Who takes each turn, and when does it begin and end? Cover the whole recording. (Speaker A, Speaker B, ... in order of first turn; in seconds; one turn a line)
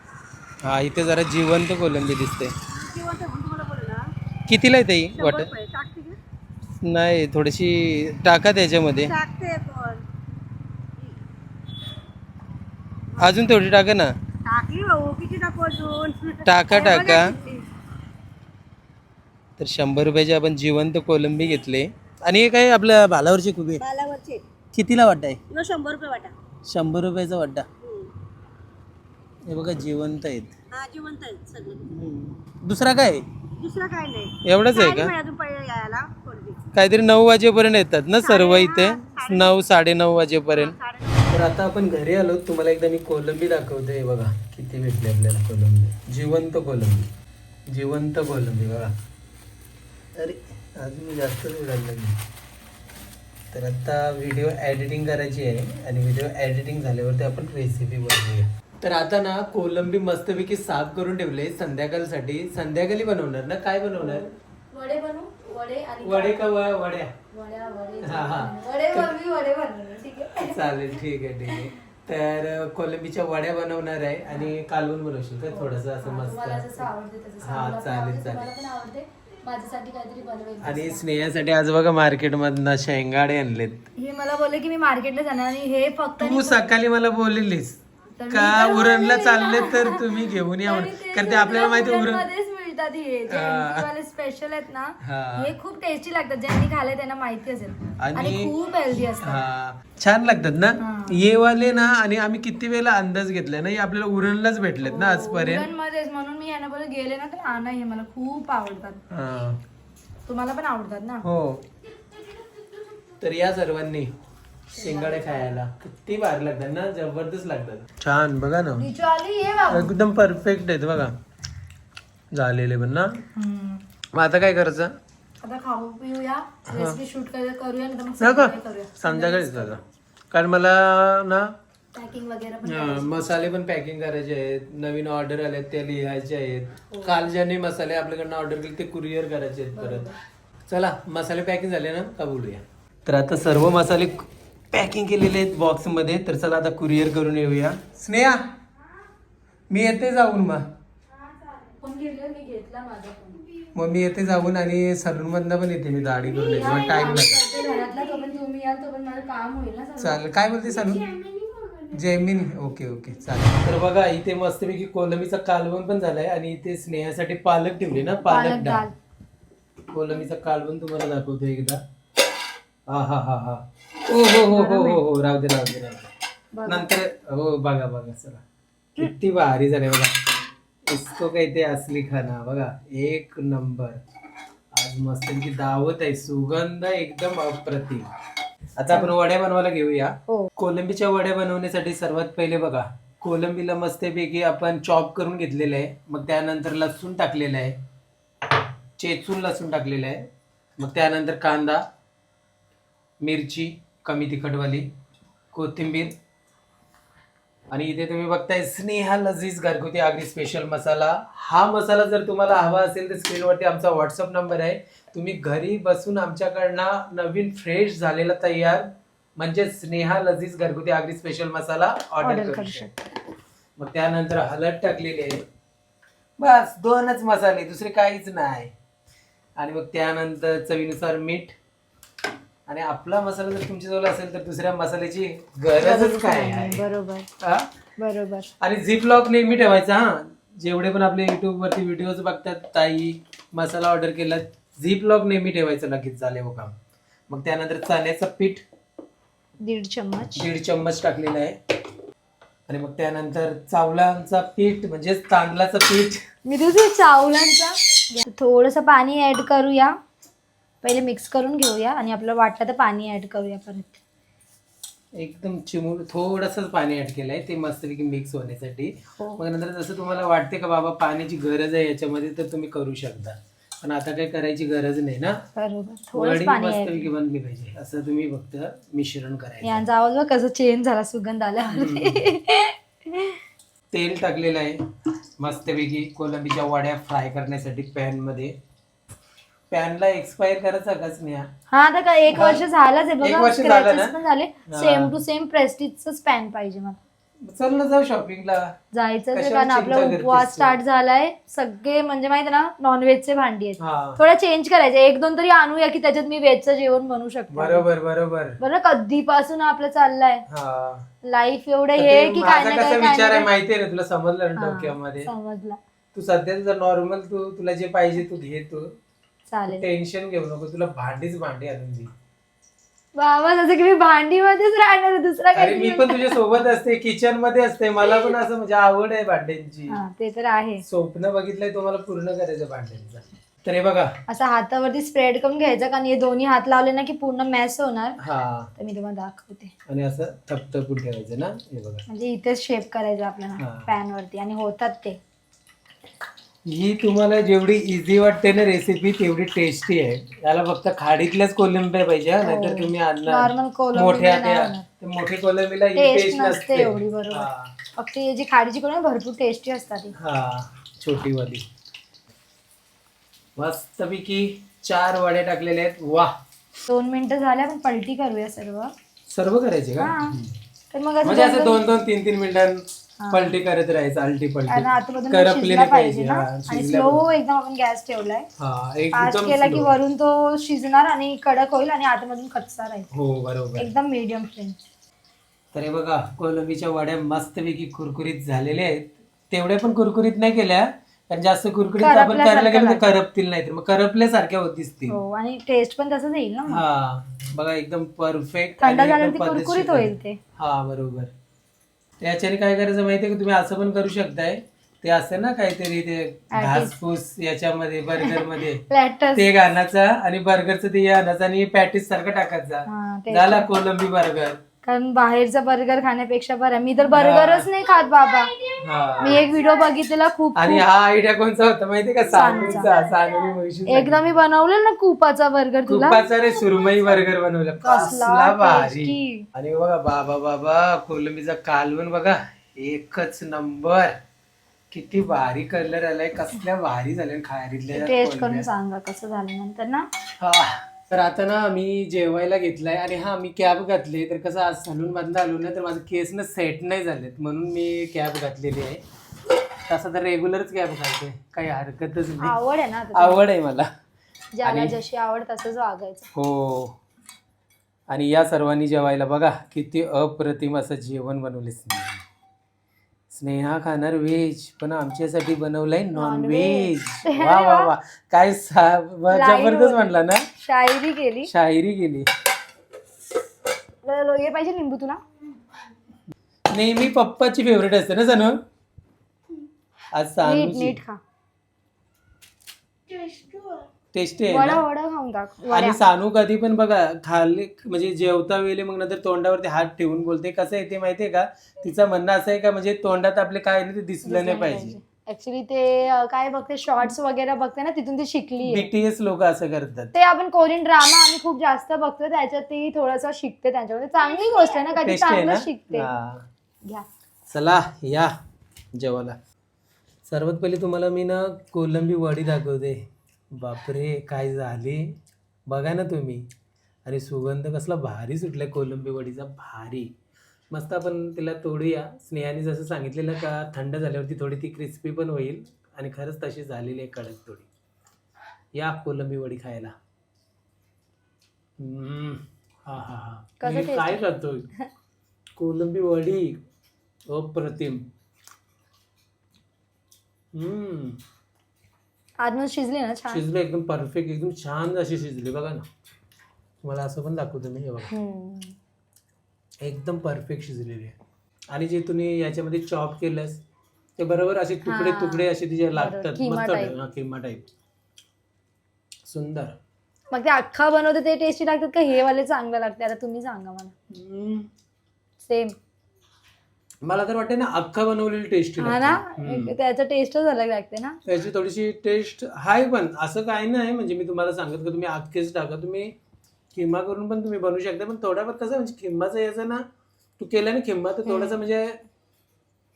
Speaker A: 0.6-2.5
Speaker B: 2.7-4.1
Speaker A: 4.5-5.5
Speaker B: 5.1-6.2
Speaker A: 6.8-9.1
Speaker B: 8.9-10.0
Speaker A: 13.2-14.1
Speaker B: 14.4-17.6
Speaker A: 16.4-17.4
Speaker A: 19.6-23.8
Speaker B: 23.8-24.4
Speaker A: 24.7-25.4
Speaker B: 25.5-26.3
Speaker A: 26.6-27.7
Speaker B: 27.8-28.1
Speaker A: 29.4-30.5
Speaker B: 30.7-32.0
Speaker A: 31.9-33.2
Speaker B: 33.6-36.6
Speaker A: 34.4-35.1
Speaker A: 36.7-40.7
Speaker B: 38.2-39.6
Speaker B: 40.5-41.4
Speaker A: 41.3-47.1
Speaker A: 47.7-48.9
Speaker A: 50.1-52.2
Speaker A: 53.5-64.3
Speaker C: 64.0-66.5
Speaker A: 66.0-67.1
Speaker C: 67.3-71.7
Speaker A: 68.0-69.1
Speaker A: 70.4-76.9
Speaker C: 75.5-81.0
Speaker A: 77.4-78.5
Speaker A: 80.6-83.9
Speaker C: 84.0-86.7
Speaker A: 86.2-87.8
Speaker C: 88.2-99.4
Speaker A: 88.3-92.3
Speaker A: 93.3-93.9
Speaker A: 95.0-95.5
Speaker A: 98.0-98.5
Speaker A: 99.2-105.7
Speaker C: 100.8-101.2
Speaker C: 104.8-109.0
Speaker A: 109.1-109.6
Speaker C: 110.2-111.2
Speaker A: 111.2-111.6
Speaker A: 113.2-114.1
Speaker A: 114.8-118.9
Speaker C: 114.8-115.6
Speaker C: 118.8-120.0
Speaker A: 119.7-121.2
Speaker A: 122.3-123.2
Speaker C: 123.3-123.8
Speaker A: 124.1-125.0
Speaker C: 125.4-129.8
Speaker A: 126.7-127.0
Speaker A: 128.2-131.5
Speaker C: 131.9-133.3
Speaker A: 132.6-140.1
Speaker C: 136.9-137.2
Speaker C: 139.7-140.2
Speaker A: 140.7-148.5
Speaker A: 149.7-150.7
Speaker C: 151.1-153.4
Speaker A: 153.7-157.4
Speaker C: 156.3-161.6
Speaker A: 160.0-161.1
Speaker A: 161.9-168.8
Speaker C: 168.2-168.9
Speaker A: 169.9-171.8
Speaker A: 172.9-176.1
Speaker C: 174.5-175.0
Speaker C: 176.5-176.9
Speaker A: 176.7-178.4
Speaker A: 179.0-180.1
Speaker A: 180.9-184.0
Speaker A: 184.7-188.1
Speaker A: 188.8-197.8
Speaker A: 199.0-201.8
Speaker A: 203.2-204.9
Speaker A: 205.5-206.1
Speaker A: 207.7-222.9
Speaker C: 222.2-223.1
Speaker A: 223.8-225.4
Speaker A: 226.4-228.7
Speaker A: 229.6-231.6
Speaker A: 232.7-236.8
Speaker C: 235.8-237.3
Speaker A: 237.4-237.7
Speaker C: 238.0-238.5
Speaker A: 238.6-246.7
Speaker A: 247.3-248.6
Speaker C: 249.6-250.4
Speaker A: 250.3-251.6
Speaker A: 252.7-256.2
Speaker C: 256.4-260.0
Speaker C: 260.8-264.0
Speaker A: 265.1-275.4
Speaker C: 275.6-277.1
Speaker A: 276.1-279.9
Speaker C: 279.6-283.4
Speaker A: 281.7-282.3
Speaker A: 283.9-288.6
Speaker A: 289.7-291.5
Speaker C: 291.7-297.0
Speaker A: 292.3-292.6
Speaker A: 293.2-294.1
Speaker A: 294.7-295.1
Speaker A: 297.4-298.7
Speaker C: 298.9-307.9
Speaker A: 299.3-300.8
Speaker A: 303.8-304.2
Speaker A: 307.5-308.6
Speaker C: 308.6-310.4
Speaker A: 310.5-311.1
Speaker C: 311.2-313.5
Speaker A: 311.9-315.3
Speaker C: 314.6-315.8
Speaker A: 316.1-318.9
Speaker C: 319.5-319.8
Speaker A: 319.7-322.1
Speaker C: 323.1-326.4
Speaker A: 325.5-330.0
Speaker C: 329.9-330.8
Speaker A: 330.8-334.2
Speaker C: 334.3-338.2
Speaker A: 338.2-338.7
Speaker C: 338.8-339.7
Speaker A: 339.9-342.1
Speaker C: 342.1-345.2
Speaker A: 343.6-343.9
Speaker A: 346.6-357.7
Speaker C: 352.4-354.9
Speaker C: 355.9-360.1
Speaker A: 360.1-361.6
Speaker A: 363.6-366.3
Speaker C: 366.9-368.9
Speaker A: 369.3-370.5
Speaker C: 370.0-370.4
Speaker C: 370.9-371.8
Speaker A: 371.2-377.2
Speaker C: 373.2-373.5
Speaker C: 374.7-378.5
Speaker A: 378.6-379.9
Speaker C: 379.1-383.1
Speaker A: 383.1-383.9
Speaker C: 383.8-384.8
Speaker A: 385.7-395.2
Speaker C: 392.0-393.1
Speaker C: 395.1-396.8
Speaker A: 396.7-401.3
Speaker C: 398.8-400.4
Speaker A: 402.2-414.6
Speaker C: 406.5-406.9
Speaker C: 408.2-409.5
Speaker C: 412.9-413.7
Speaker C: 414.8-418.7
Speaker A: 417.1-417.7
Speaker A: 418.8-419.5
Speaker C: 419.2-420.8
Speaker A: 420.6-424.2
Speaker C: 422.3-423.1
Speaker C: 423.9-427.2
Speaker A: 425.9-434.2
Speaker C: 427.8-429.4
Speaker A: 434.9-438.7
Speaker C: 437.9-440.1
Speaker A: 440.4-449.0
Speaker A: 449.9-452.5
Speaker C: 452.4-453.4
Speaker A: 453.1-453.9
Speaker C: 454.5-456.3
Speaker A: 454.6-454.9
Speaker A: 456.3-457.0
Speaker A: 458.1-462.2
Speaker A: 463.3-470.5
Speaker C: 466.1-467.9
Speaker C: 469.3-471.5
Speaker A: 471.5-472.3
Speaker C: 474.0-475.2
Speaker A: 476.7-478.6
Speaker A: 480.1-481.0
Speaker C: 480.4-481.2
Speaker A: 484.1-484.8
Speaker C: 484.5-486.0
Speaker A: 485.7-495.0
Speaker C: 494.2-498.9
Speaker A: 498.6-500.1
Speaker C: 500.1-506.1
Speaker A: 505.0-506.5
Speaker A: 507.5-508.3
Speaker A: 508.9-509.4
Speaker A: 510.3-515.1
Speaker A: 515.7-516.5
Speaker A: 517.0-520.1
Speaker A: 520.7-527.7
Speaker A: 528.7-529.9
Speaker A: 531.8-534.7
Speaker C: 533.6-534.2
Speaker A: 535.6-536.6
Speaker A: 537.3-538.1
Speaker A: 540.5-541.2
Speaker C: 542.4-543.4
Speaker A: 543.3-545.9
Speaker A: 546.8-548.1
Speaker C: 548.1-548.8
Speaker A: 549.8-551.1
Speaker A: 551.7-553.6
Speaker A: 554.2-557.7
Speaker C: 554.8-556.9
Speaker A: 559.2-559.8
Speaker C: 560.3-563.9
Speaker A: 564.1-564.7
Speaker C: 565.4-565.8
Speaker A: 567.0-569.7
Speaker C: 568.8-571.2
Speaker A: 571.2-576.1
Speaker A: 576.7-579.9
Speaker A: 580.4-582.0
Speaker C: 581.2-581.6